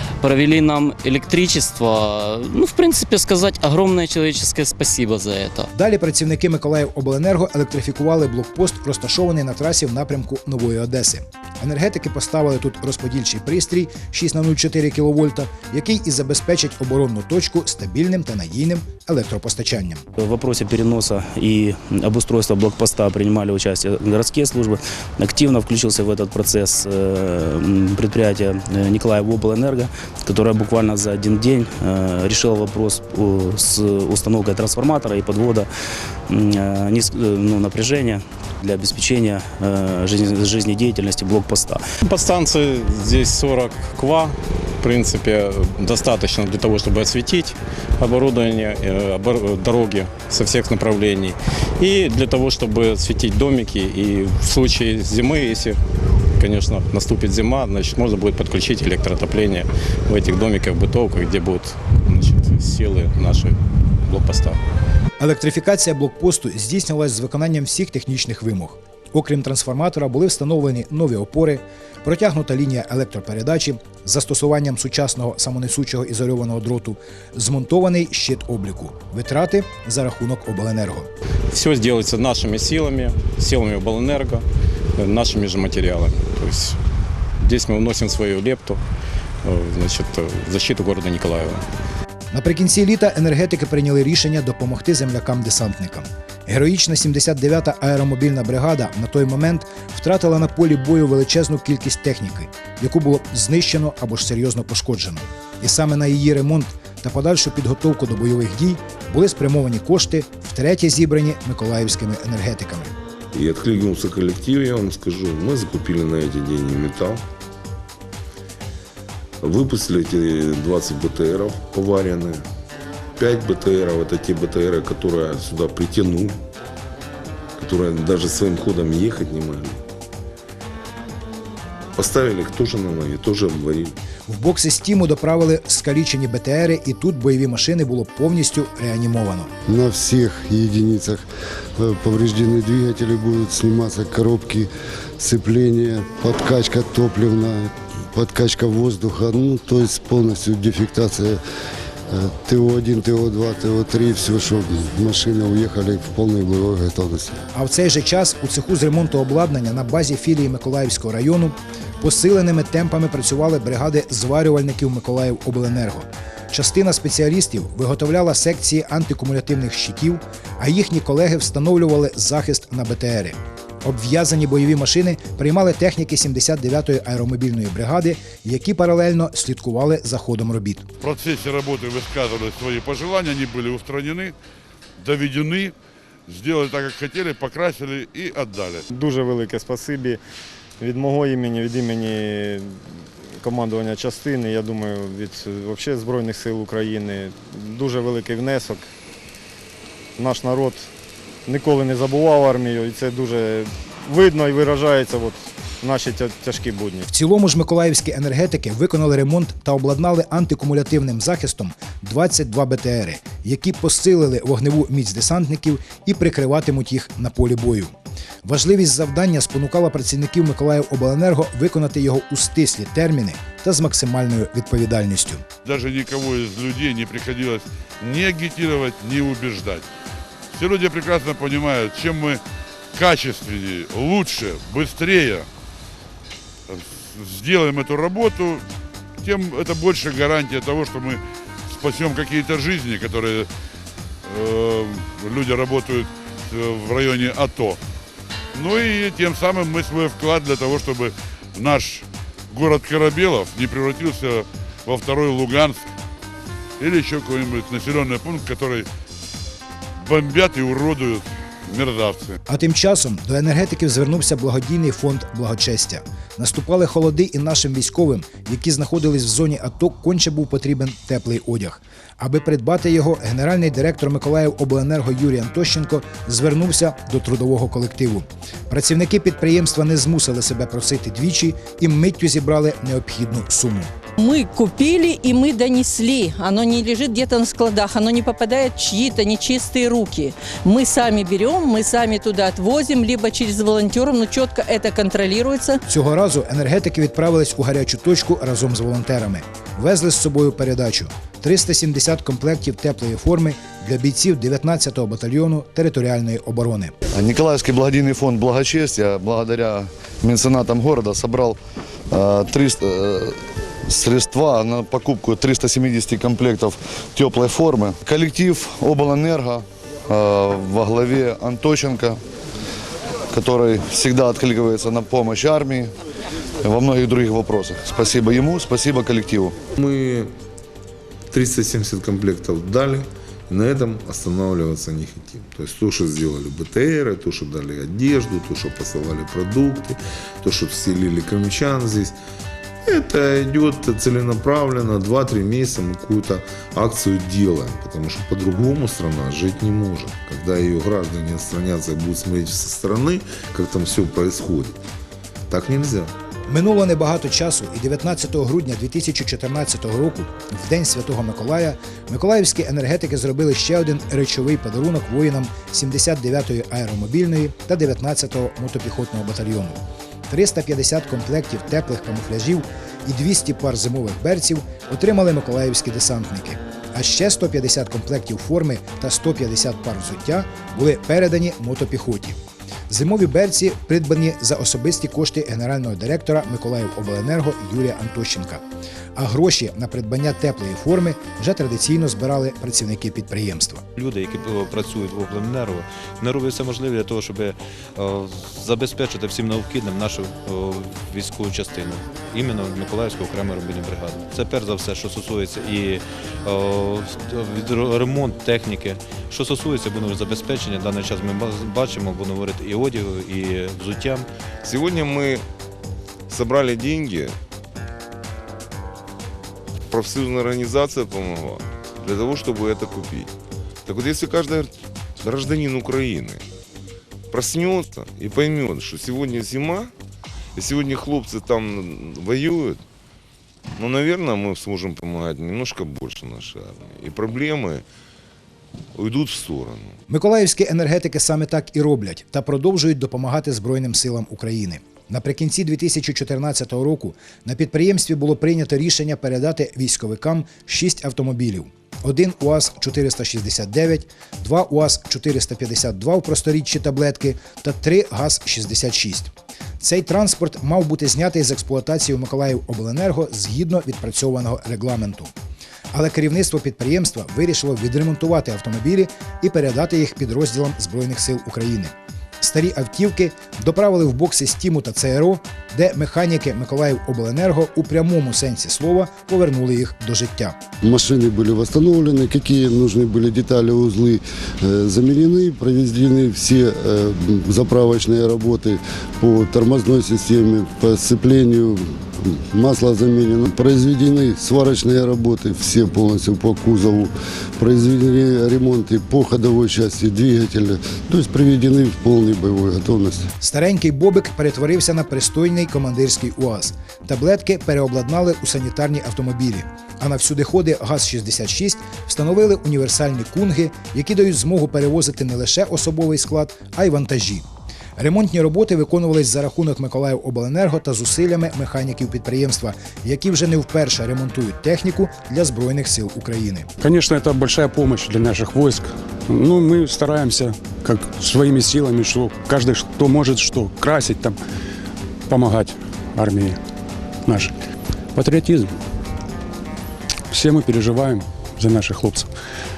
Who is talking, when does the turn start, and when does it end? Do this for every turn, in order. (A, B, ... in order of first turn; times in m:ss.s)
0:00.2-0:05.7 A
0:05.7-0:20.0 B
0:20.2-0:35.7 C
0:36.3-0:41.8 C
0:42.0-0:55.8 D
0:56.4-1:04.6 D
1:05.2-1:21.1 B
1:21.5-1:24.4 D
1:25.0-1:26.8 D
1:27.4-1:28.8 D
1:29.4-1:31.6 D
1:32.3-1:52.9 B
1:53.3-1:57.2 E
1:59.4-2:02.4 E
2:03.2-2:06.4 E
2:07.6-2:09.8 E
2:12.0-2:13.9 E
2:14.3-2:19.5 B
2:19.6-2:31.4 F
2:32.1-2:37.4 F
2:37.5-3:00.8 B
3:01.0-3:04.3 G
3:05.0-3:05.7 G
3:06.3-3:08.8 G
3:08.9-3:10.2 H
3:10.8-3:12.8 H
3:13.4-3:18.9 H
3:20.2-3:20.9 H
3:21.4-3:27.0 H
3:27.1-3:37.9 B
3:38.4-3:45.4 B
3:45.6-3:49.9 G
3:50.5-3:52.4 G
3:52.9-3:55.5 G
3:56.7-3:58.6 G
3:59.2-4:03.5 G
4:04.2-4:07.8 G
4:08.5-4:15.8 G
4:16.8-4:18.9 G
4:20.0-4:22.4 G
4:22.5-4:43.9 B
4:44.2-4:55.8 I
4:55.9-5:06.9 B
5:07.1-5:11.6 J
5:12.1-5:22.2 J
5:23.3-5:25.9 J
5:26.6-5:29.6 J
5:29.8-5:30.3 E
5:31.3-5:42.1 E
5:42.8-5:54.8 E
5:55.5-5:56.1 E
5:56.5-6:22.4 B
6:22.9-6:28.6 B
6:29.1-6:33.8 B
6:34.0-6:54.2 K
6:54.6-6:55.4 E
6:56.3-6:57.4 E
6:59.9-7:03.3 E
7:03.8-7:06.4 E
7:07.3-7:09.9 E
7:10.6-7:12.8 E
7:13.8-7:17.8 E
7:18.9-7:20.0 E
7:20.1-7:45.3 B
7:45.9-8:00.6 B
8:00.8-8:23.3 F
8:23.4-8:37.4 B
8:38.0-8:46.7 B
8:46.8-8:54.4 L
8:55.3-8:56.6 L
8:57.2-8:57.5 L
8:58.1-8:58.8 L
9:00.3-9:02.3 L